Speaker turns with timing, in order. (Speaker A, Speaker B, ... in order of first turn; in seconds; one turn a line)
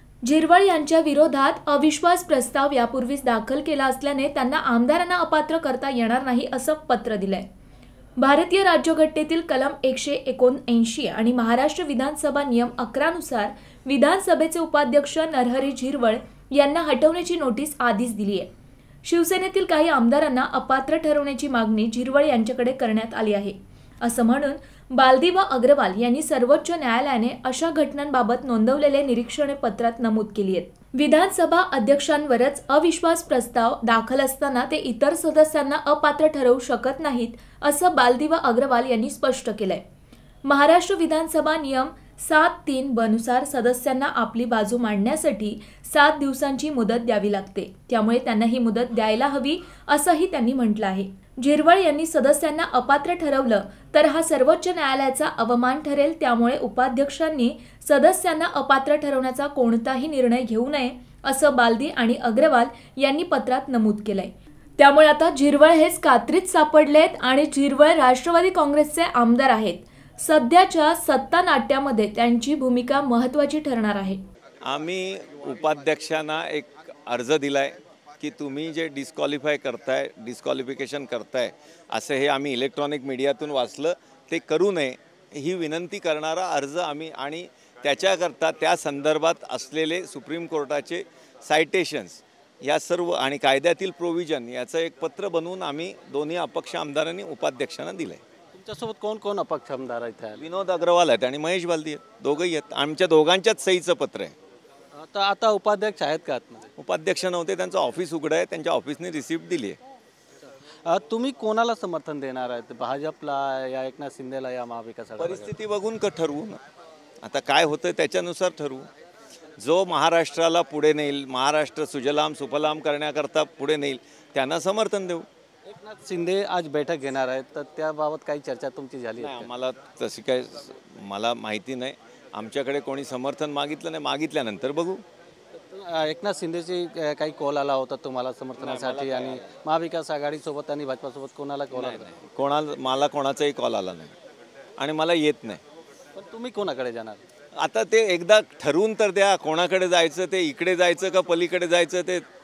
Speaker A: 0.2-7.5
Speaker A: 8.2-18.5
Speaker A: 19.0-39.8
Speaker A: 40.5-74.2
Speaker B: 74.7-98.2
Speaker C: 98.5-100.4
Speaker B: 100.4-104.3
Speaker C: 105.0-106.7
Speaker B: 106.8-109.8
Speaker C: 110.8-115.5
Speaker B: 115.2-116.6
Speaker B: 117.2-118.9
Speaker B: 119.6-125.3
Speaker C: 125.7-129.5
Speaker B: 129.2-135.0
Speaker C: 135.6-142.2
Speaker B: 138.6-139.4
Speaker B: 141.7-144.1
Speaker B: 144.8-145.6
Speaker C: 146.2-147.2
Speaker B: 147.6-152.2